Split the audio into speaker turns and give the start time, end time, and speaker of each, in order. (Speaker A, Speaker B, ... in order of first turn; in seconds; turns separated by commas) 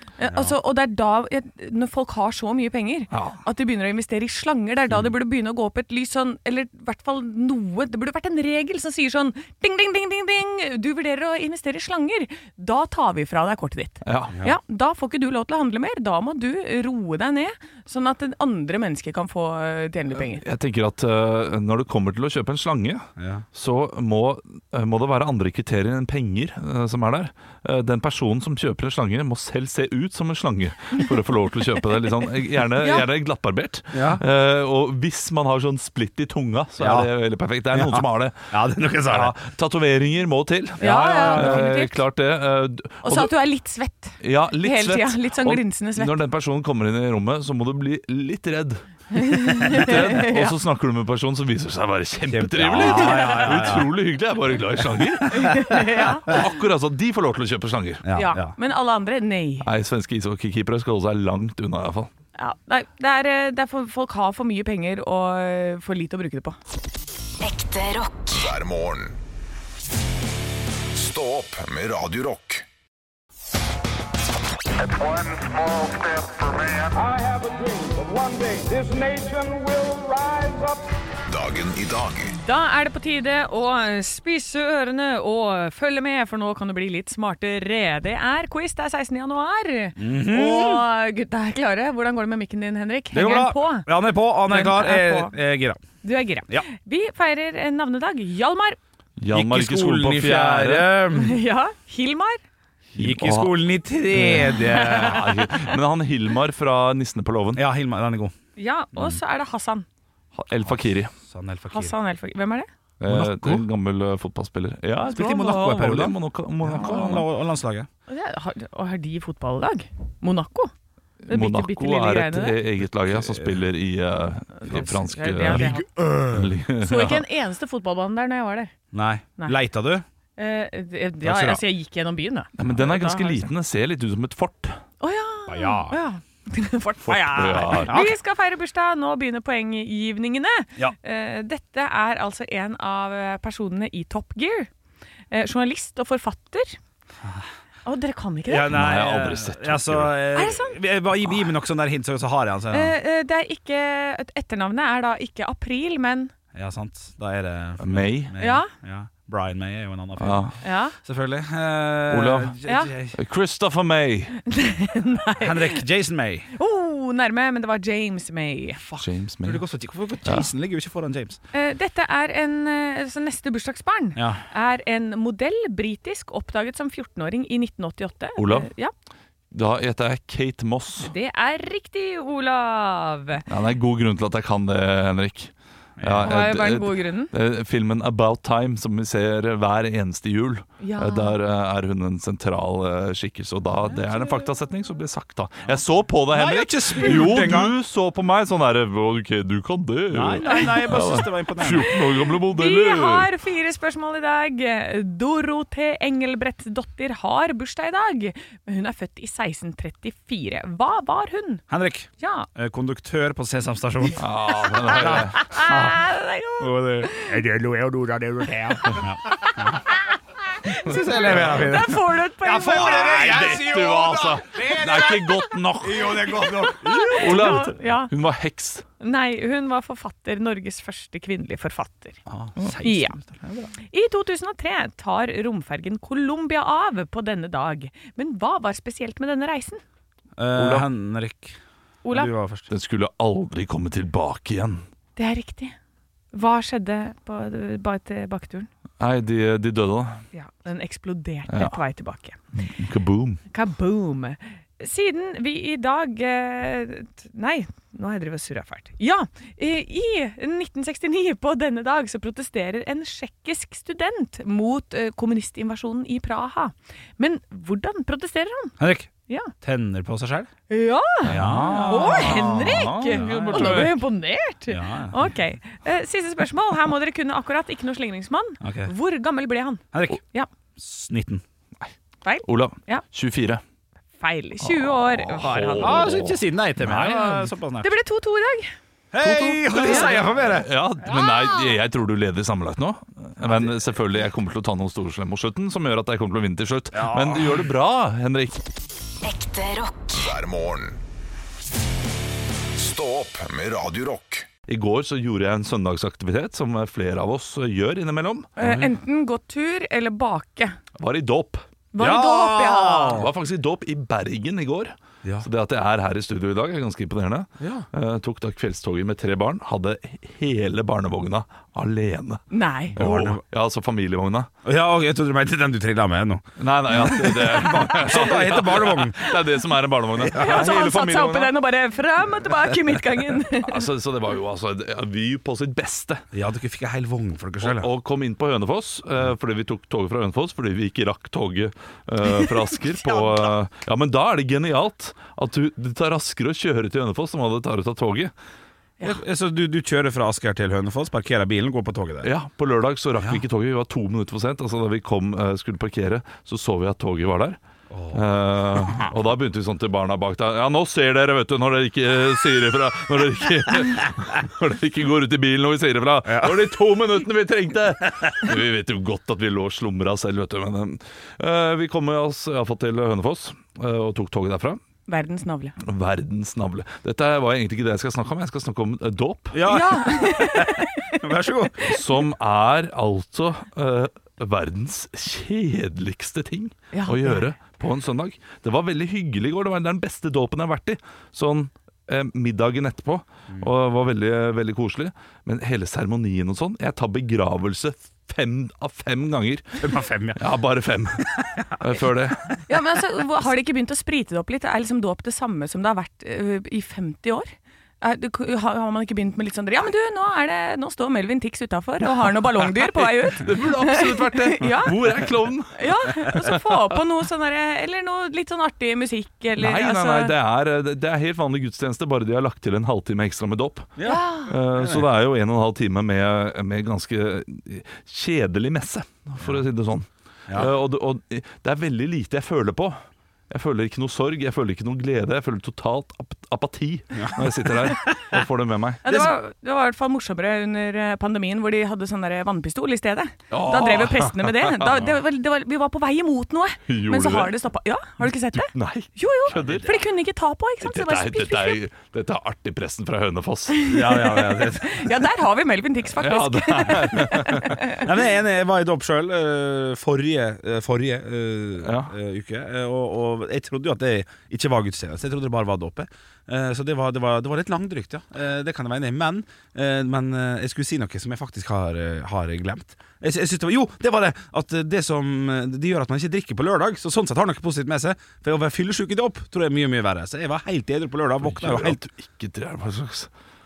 Speaker A: 0.2-20.4, Speaker B: 0.2-0.6, Speaker C: 3.1-3.4, Speaker C: 14.0-14.3, Speaker B: 14.3-14.6, Speaker C: 20.2-38.5, Speaker B: 23.2-23.4, Speaker A: 32.8-33.0, Speaker B: 33.9-34.2, Speaker B: 36.8-37.1, Speaker B: 37.7-39.3, Speaker C: 39.1-43.3, Speaker B: 40.8-41.6, Speaker A: 40.8-42.0, Speaker A: 43.0-46.2, Speaker C: 44.2-58.0, Speaker A: 49.1-50.5, Speaker B: 52.3-53.9, Speaker A: 52.8-53.8, Speaker B: 55.0-56.4, Speaker A: 55.3-56.4, Speaker B: 58.0-58.5, Speaker A: 58.1-59.7, Speaker C: 59.6-62.1, Speaker A: 62.4-66.6, Speaker D: 67.4-69.2, Speaker D: 70.9-72.7, Speaker E: 75.0-75.6, Speaker E: 76.8-80.9, Speaker D: 81.3-82.3, Speaker A: 82.2-93.9, Speaker B: 90.0-90.8, Speaker B: 93.1-95.8, Speaker A: 94.5-95.3, Speaker A: 96.0-98.8, Speaker C: 99.2-100.9, Speaker B: 99.3-101.4, Speaker A: 101.1-102.4, Speaker B: 102.9-105.4, Speaker C: 102.9-103.6, Speaker C: 104.1-107.6, Speaker A: 104.2-105.7, Speaker B: 107.5-108.3, Speaker A: 108.5-109.8, Speaker B: 108.9-109.2, Speaker C: 110.3-111.1, Speaker B: 110.6-111.9, Speaker A: 111.7-112.7, Speaker C: 113.0-117.3, Speaker B: 113.0-113.6, Speaker B: 115.0-117.9, Speaker A: 118.1-120.7, Speaker C: 121.2-127.2, Speaker A: 121.3-122.6, Speaker B: 123.1-123.5, Speaker A: 124.6-125.9, Speaker B: 125.4-126.5, Speaker A: 126.8-128.7, Speaker B: 128.9-130.0, Speaker A: 130.4-133.5, Speaker B: 131.2-131.6, Speaker C: 132.6-134.8, Speaker A: 135.0-144.7, Speaker B: 135.5-136.0, Speaker C: 137.1-138.0, Speaker B: 137.8-138.1, Speaker A: 145.3-146.8, Speaker A: 147.8-148.8, Speaker B: 148.5-152.9, Speaker C: 148.6-150.2, Speaker A: 150.3-150.8, Speaker A: 152.7-156.3, Speaker B: 156.5-163.2, Speaker C: 157.8-158.3, Speaker A: 158.4-158.7, Speaker C: 160.2-160.5, Speaker A: 160.6-160.9, Speaker C: 162.1-162.6, Speaker C: 163.1-164.3, Speaker A: 164.4-165.8, Speaker B: 165.4-166.5, Speaker A: 166.6-168.8, Speaker B: 168.9-171.4, Speaker C: 168.9-169.6, Speaker A: 171.5-178.9, Speaker B: 174.2-174.4, Speaker C: 178.4-178.7, Speaker C: 179.5-181.1, Speaker A: 181.0-183.4, Speaker C: 183.5-203.3, Speaker B: 186.0-186.4, Speaker A: 186.2-187.3, Speaker A: 190.8-191.3, Speaker B: 196.3-197.7, Speaker B: 200.1-202.0, Speaker A: 202.4-211.6, Speaker B: 211.7-214.2, Speaker A: 212.2-212.5, Speaker C: 214.2-215.4, Speaker A: 214.6-217.3, Speaker B: 214.8-216.1, Speaker B: 216.6-219.8, Speaker A: 219.4-219.7, Speaker A: 220.6-223.8, Speaker B: 220.7-227.7, Speaker C: 221.2-221.6, Speaker C: 222.6-226.6, Speaker A: 226.5-228.1, Speaker C: 227.2-228.8, Speaker A: 229.0-232.2, Speaker B: 232.3-233.7, Speaker A: 232.8-233.2, Speaker A: 233.8-239.8, Speaker B: 240.4-241.6, Speaker C: 240.5-240.9, Speaker A: 242.0-242.3, Speaker B: 242.1-242.7, Speaker C: 242.7-244.8, Speaker A: 245.2-245.7, Speaker A: 246.3-248.7, Speaker C: 249.0-250.2, Speaker A: 250.3-252.4, Speaker C: 251.5-251.8, Speaker C: 252.5-253.4, Speaker A: 253.5-268.7, Speaker B: 268.8-270.5, Speaker A: 270.7-280.5, Speaker B: 271.2-273.9, Speaker C: 271.2-273.9, Speaker B: 274.7-275.3, Speaker B: 278.6-278.9, Speaker B: 279.9-280.2, Speaker B: 280.8-281.4, Speaker A: 282.2-283.0, Speaker C: 282.4-283.6, Speaker A: 284.2-286.1, Speaker C: 284.6-287.5, Speaker B: 285.8-287.9, Speaker A: 287.8-288.7, Speaker B: 289.1-291.4, Speaker C: 289.2-298.6, Speaker A: 289.7-290.2, Speaker B: 293.4-293.8, Speaker B: 296.9-297.6, Speaker D: 299.2-301.0, Speaker D: 302.7-304.5, Speaker C: 304.7-308.9, Speaker A: 308.6-310.8, Speaker C: 311.0-311.6, Speaker A: 311.9-313.3, Speaker B: 312.0-313.3, Speaker C: 313.1-324.5, Speaker B: 317.6-317.9, Speaker A: 322.5-323.0, Speaker B: 322.9-323.4, Speaker B: 324.6-329.4, Speaker C: 326.6-331.6, Speaker B: 330.2-330.7, Speaker A: 330.3-333.9, Speaker C: 333.6-336.2, Speaker B: 336.3-337.9, Speaker C: 337.6-348.3, Speaker A: 342.2-343.5, Speaker B: 349.0-352.3, Speaker C: 352.2-357.6, Speaker B: 357.9-359.1, Speaker C: 358.1-374.8, Speaker B: 366.2-366.6, Speaker A: 375.1-375.7, Speaker C: 375.8-379.9, Speaker B: 379.5-382.0, Speaker A: 379.7-381.2, Speaker C: 381.8-399.8, Speaker A: 386.9-387.5, Speaker B: 399.8-400.4, Speaker C: 400.4-402.6, Speaker B: 401.3-401.7, Speaker A: 402.7-415.1, Speaker C: 412.5-416.9, Speaker A: 415.8-420.3, Speaker C: 419.6-433.0, Speaker B: 424.0-425.0, Speaker A: 424.0-424.5, Speaker C: 433.5-439.2, Speaker B: 437.1-437.9, Speaker A: 439.0-451.8, Speaker B: 439.1-439.3, Speaker C: 443.5-445.1, Speaker C: 446.9-447.6, Speaker C: 448.2-450.0, Speaker B: 449.5-450.0, Speaker C: 450.8-453.9, Speaker A: 453.7-458.1, Speaker B: 453.9-455.1, Speaker C: 456.2-457.9, Speaker B: 458.0-482.0, Speaker C: 461.8-462.1, Speaker C: 481.4-483.3